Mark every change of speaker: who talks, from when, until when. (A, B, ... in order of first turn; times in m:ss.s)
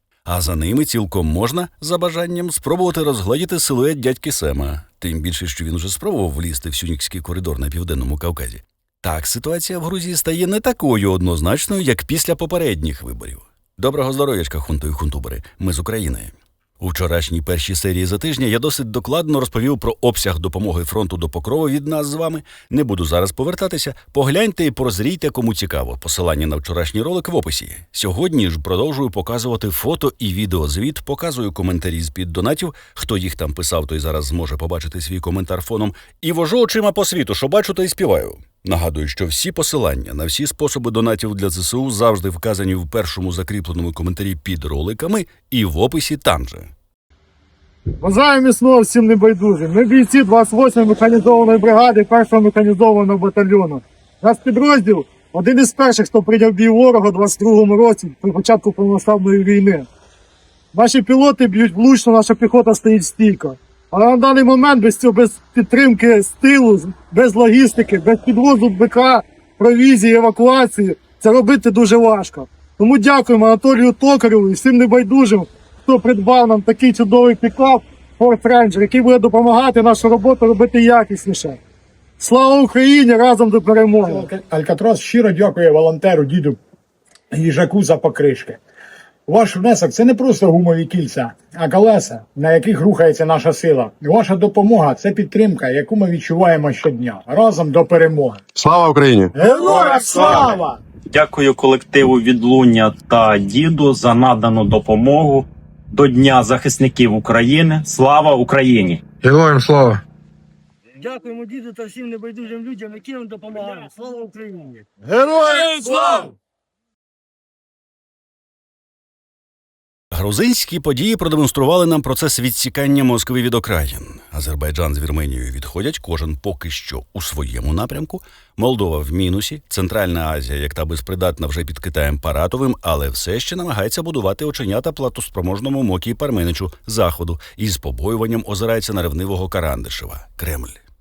0:00.2-0:46.7 A
0:48.0-0:59.9 B
1:00.7-1:21.6 B
1:22.2-1:24.2 B
1:24.1-1:26.6 C
1:27.3-1:28.6 C
1:29.3-1:38.4 C
1:38.6-1:39.9 D
1:39.3-1:40.8 C
1:41.1-1:49.0 E
1:49.2-1:50.0 D
1:51.0-1:56.3 B
2:00.1-2:20.8 A